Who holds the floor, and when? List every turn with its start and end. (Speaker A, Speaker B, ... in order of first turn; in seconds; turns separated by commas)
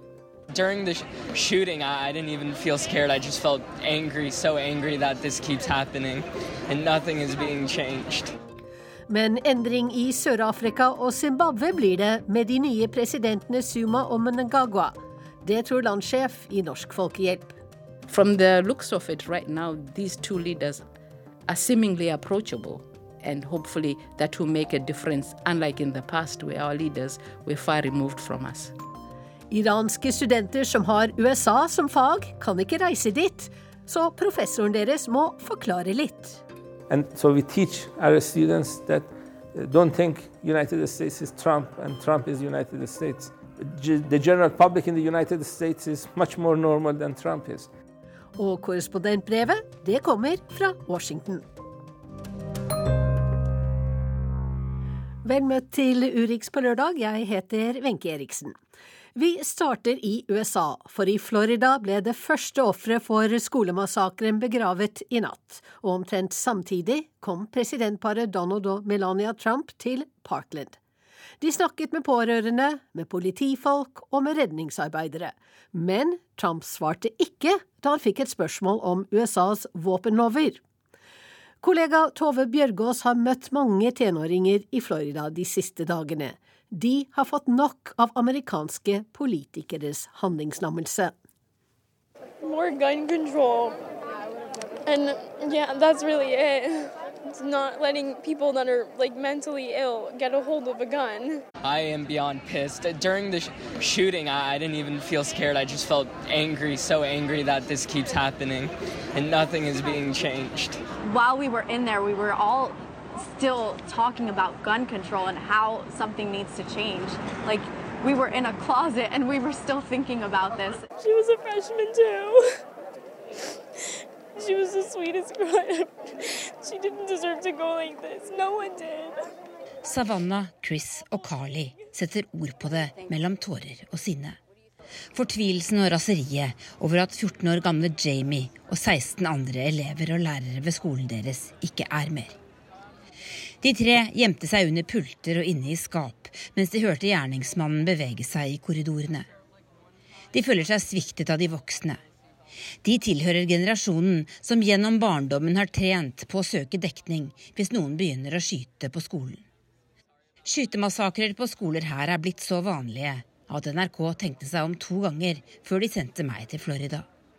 Speaker A: 0.5-8.3, Speaker B: 9.1-17.6, Speaker C: 18.1-20.8, Speaker C: 21.5-28.7, Speaker B: 29.5-36.4, Speaker D: 36.9-47.7, Speaker B: 48.4-51.5, Speaker B: 55.2-58.6, Speaker B: 59.1-70.8, Speaker B: 71.4-80.6, Speaker B: 81.6-91.2, Speaker E: 92.4-93.8, Speaker E: 94.8-101.4, Speaker A: 101.6-110.9, Speaker F: 111.0-120.9, Speaker E: 121.0-122.6, Speaker E: 124.4-129.2, Speaker G: 129.8-134.4, Speaker G: 135.1-142.3, Speaker G: 143.6-149.3, Speaker G: 150.3-152.0, Speaker G: 152.8-159.4, Speaker G: 160.4-167.1